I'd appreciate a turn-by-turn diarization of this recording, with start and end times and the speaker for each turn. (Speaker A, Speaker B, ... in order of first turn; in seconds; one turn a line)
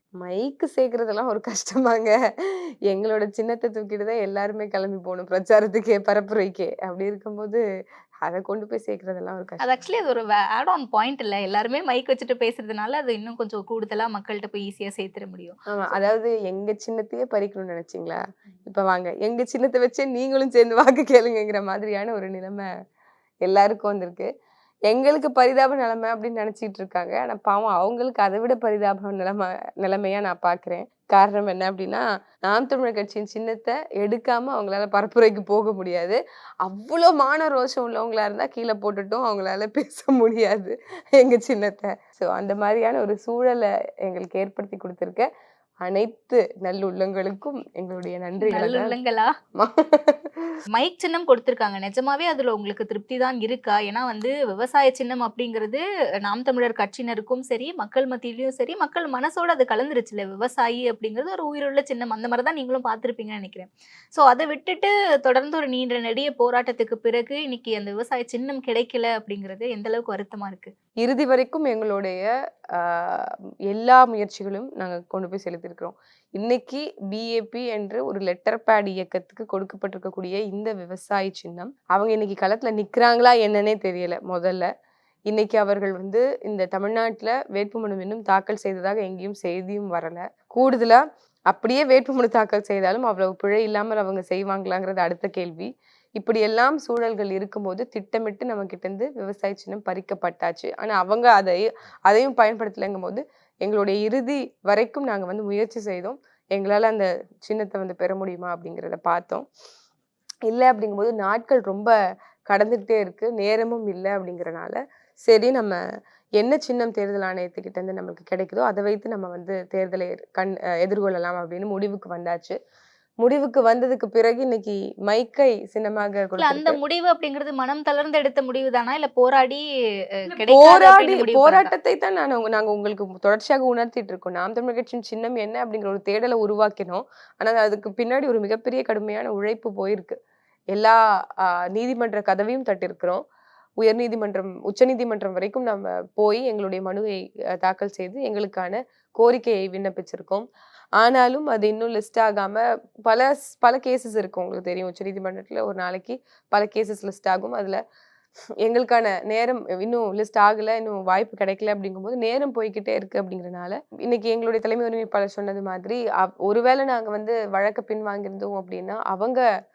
Speaker A: 0.2-7.6
Speaker A: 8.2-9.7
Speaker B: 9.6-15.7
Speaker A: 15.7-22.7
Speaker A: 23.4-24.3
Speaker A: 24.9-45.3
Speaker A: 45.8-49.0
Speaker B: 48.4-49.3
Speaker A: 49.5-50.6
Speaker B: 50.7-70.7
Speaker A: 71.0-84.7
Speaker A: 85.3-109.5
Speaker A: 110.5-111.9
Speaker A: 112.5-115.8
Speaker A: 116.4-122.6
Speaker A: 123.2-126.8
Speaker B: 126.4-129.6
Speaker B: 130.2-131.7
Speaker A: 130.3-140.2
Speaker A: 140.7-143.2
Speaker A: 143.8-150.5
Speaker A: 151.0-157.8
Speaker A: 158.6-169.4